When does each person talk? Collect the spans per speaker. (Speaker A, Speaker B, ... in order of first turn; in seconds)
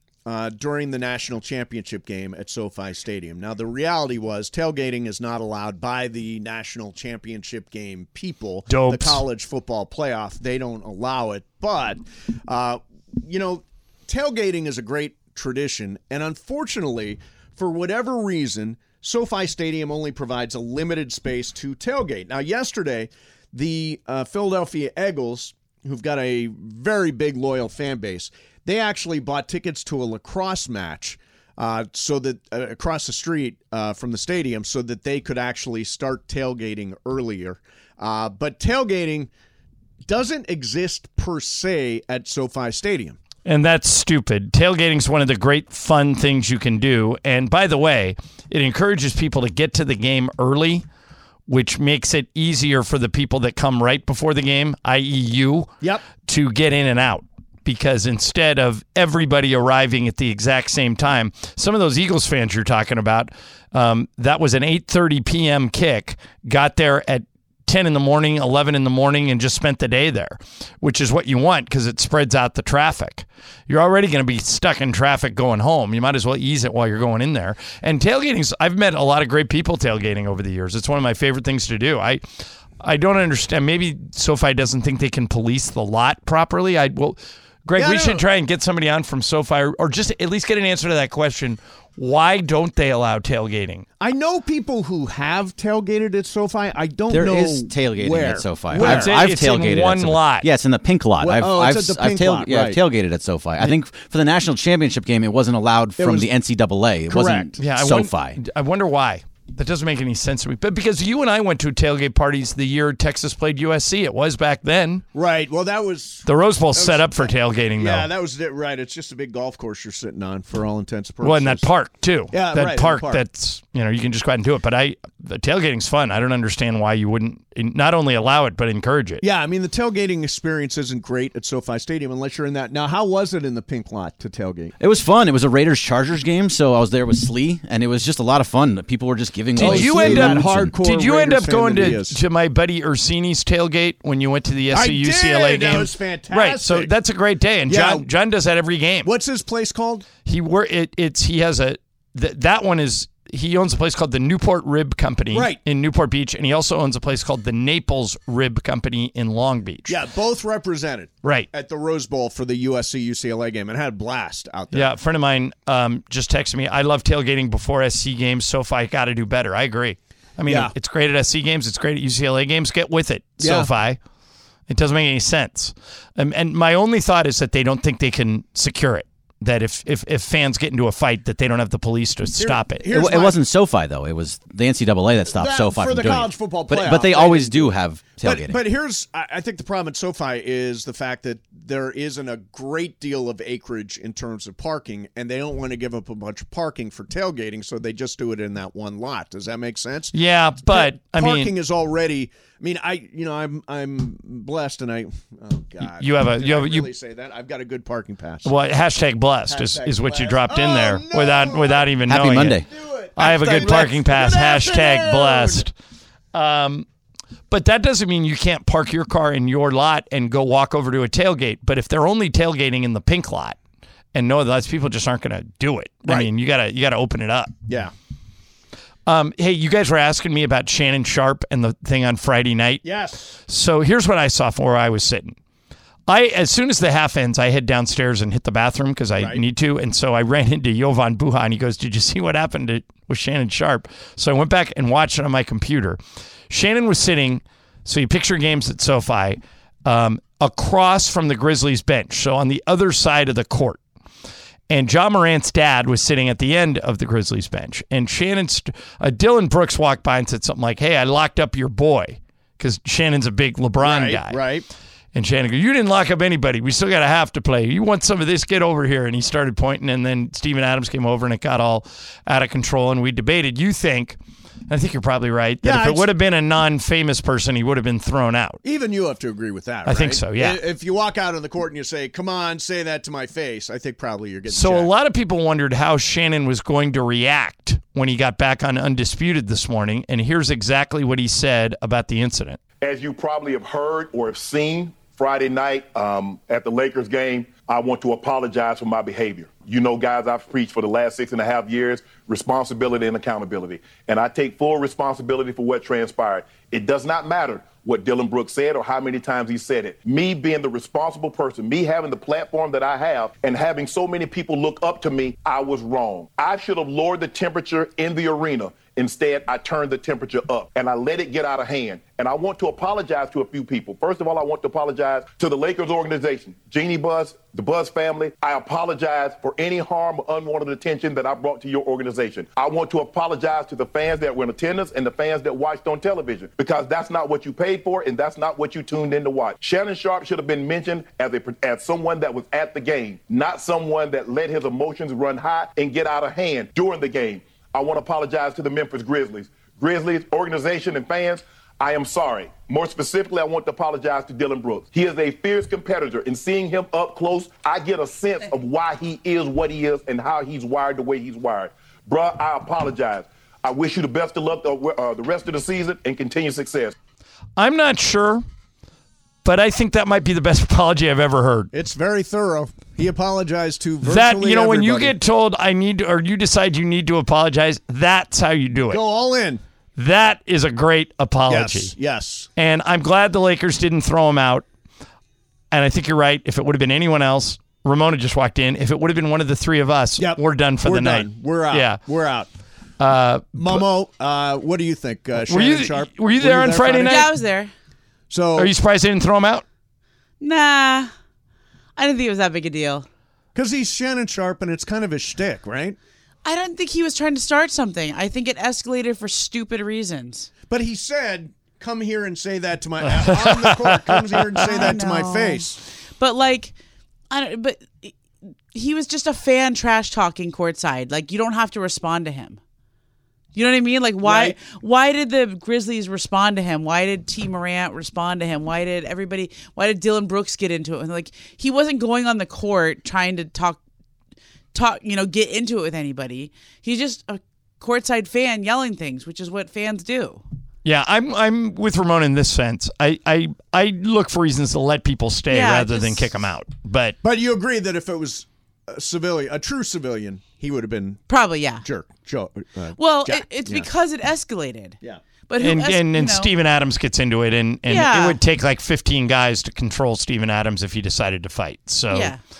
Speaker A: 0.2-39.3, 40.0-43.2, 87.8-88.2, 94.0-99.2, 101.2-102.8, 106.0-106.3, 107.1-107.6, 115.1-121.7, 122.3-123.2, 129.2-134.7, 139.6-142.2, 144.7-146.9, 147.7-148.1, 149.0-150.1, 155.3-155.6, 159.9-164.9, 173.4-173.7, 182.4-183.4, 185.3-208.5, 209.5-212.0, 212.6-215.6, 232.8-233.3, 263.8-264.7, 275.6-276.1, 278.6-284.9, 371.7-375.1, 378.9-379.6, 381.5-382.5, 390.2-392.5, 393.6-397.3, 398.3-398.7, 403.5-406.0, 410.7-415.8, 424.2-424.6, 447.2-451.2, 451.8-453.9
Speaker B: 8.7-9.2, 43.4-50.8, 51.5-82.2, 82.8-93.8, 98.7-100.5, 107.6-115.0, 116.2-118.1, 121.2-129.2, 139.5-149.1, 150.2-160.0, 161.2-161.5, 164.7-174.0, 174.7-182.9, 200.1-201.5, 206.0-206.9, 208.4-212.6, 213.2-215.7, 216.3-216.8, 217.5-223.6, 224.1-227.5, 229.1-232.8, 233.5-235.4, 236.1-246.0, 246.5-253.8, 254.7-264.4, 265.1-274.2, 274.7-278.6, 279.9-280.6, 284.5-292.6, 367.6-368.4, 369.4-371.7, 374.0-379.0, 379.9-381.9, 382.6-384.6, 385.7-392.0, 393.0-393.8, 395.4-397.3, 398.6-399.6, 413.2-415.0, 440.8-447.2, 455.6-462.3
Speaker C: 97.1-108.4, 134.8-140.7, 182.9-188.6, 212.1-212.7
Speaker D: 292.8-366.9
Speaker E: 397.0-397.7, 400.4-401.1, 401.9-403.1, 406.4-410.5, 414.6-416.7, 417.3-418.1, 418.7-422.6, 423.5-433.8, 434.7-440.4, 445.5-446.3, 451.3-451.8, 452.9-455.0, 455.5-456.5, 457.9-458.4, 462.1-462.4